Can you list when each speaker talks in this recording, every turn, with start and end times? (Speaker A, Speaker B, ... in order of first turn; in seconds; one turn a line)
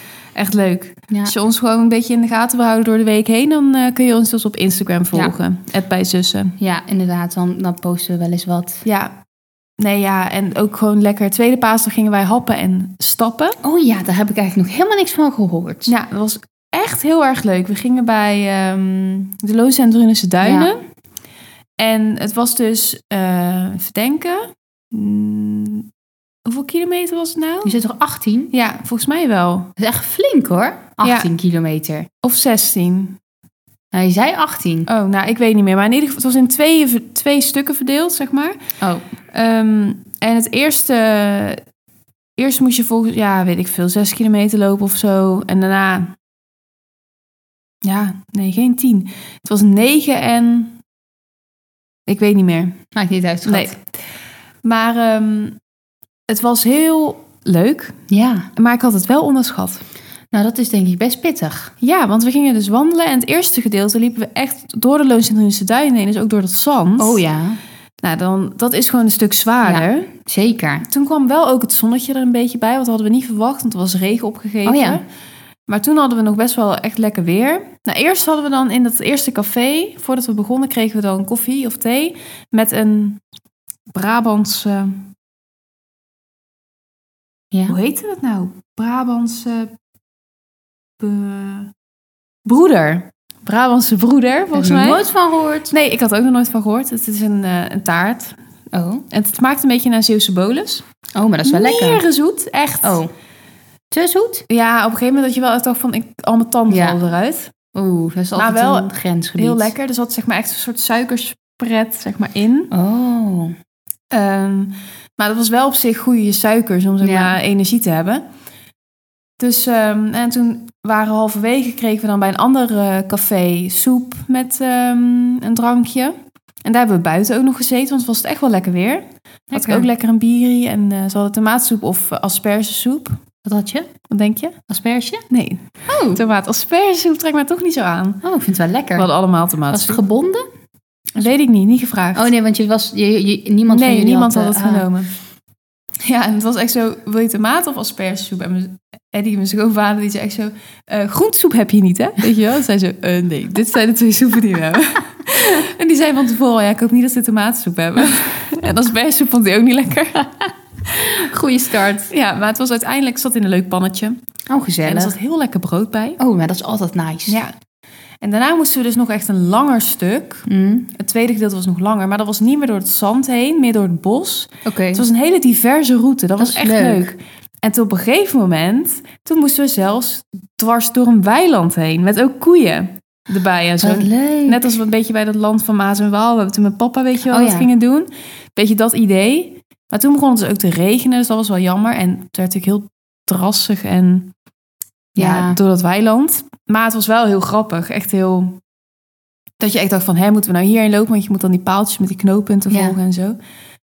Speaker A: 0.3-6.5
Speaker B: 6.6-8.8
Speaker A: 8.8-9.1
Speaker A: 9.8-13.6
Speaker B: 13.6-15.9
Speaker A: 15.9-20.8
Speaker B: 20.4-20.7
Speaker A: 21.8-25.9
Speaker A: 26.4-27.8
Speaker B: 27.6-28.5
Speaker A: 28.5-29.7
Speaker B: 29.8-32.1
Speaker A: 31.0-31.3
Speaker A: 32.2-33.2
Speaker B: 33.9-34.9
Speaker A: 34.9-38.6
Speaker A: 39.3-41.6
Speaker A: 42.4-46.2
Speaker A: 47.8-50.8
Speaker A: 52.1-52.8
Speaker B: 52.9-53.8
Speaker A: 53.5-53.9
Speaker A: 54.6-55.6
Speaker A: 56.3-58.0
Speaker B: 58.1-58.5
Speaker A: 58.6-59.8
Speaker B: 60.3-61.7
Speaker A: 61.8-67.2
Speaker B: 67.0-67.6
Speaker A: 68.0-70.1
Speaker B: 69.6-70.9
Speaker A: 70.9-75.0
Speaker B: 74.7-75.0
Speaker A: 75.7-83.2
Speaker A: 83.9-85.1
Speaker B: 87.5-87.8
Speaker A: 87.7-89.7
Speaker A: 91.0-91.7
Speaker A: 92.5-95.0
Speaker B: 94.5-95.7
Speaker A: 95.7-98.4
Speaker B: 98.7-99.1
Speaker A: 99.1-100.8
Speaker B: 101.2-102.0
Speaker A: 101.5-103.0
Speaker B: 102.8-103.1
Speaker B: 103.9-104.5
Speaker A: 104.5-107.5
Speaker B: 106.7-107.0
Speaker B: 107.7-109.7
Speaker A: 108.3-112.7
Speaker B: 112.7-113.5
Speaker A: 114.1-118.2
Speaker B: 117.0-117.3
Speaker A: 119.4-133.2
Speaker B: 129.5-129.9
Speaker B: 133.4-133.9
Speaker A: 134.1-134.6
Speaker B: 134.7-135.2
Speaker A: 135.3-138.2
Speaker B: 135.9-136.2
Speaker B: 138.2-139.1
Speaker A: 139.0-140.0
Speaker B: 139.7-140.4
Speaker A: 141.2-142.3
Speaker B: 142.2-144.9
Speaker A: 143.7-145.1
Speaker A: 146.0-160.3
Speaker B: 160.9-162.1
Speaker A: 162.1-164.2
Speaker B: 164.5-165.2
Speaker A: 164.8-166.2
Speaker B: 166.2-167.4
Speaker A: 167.3-167.5
Speaker A: 168.2-194.3
Speaker B: 170.5-170.9
Speaker B: 174.7-175.1
Speaker B: 176.4-177.1
Speaker B: 183.8-184.7
Speaker B: 187.3-187.7
Speaker B: 195.2-195.6
Speaker A: 195.2-198.6
Speaker A: 199.6-203.4
Speaker B: 202.7-203.0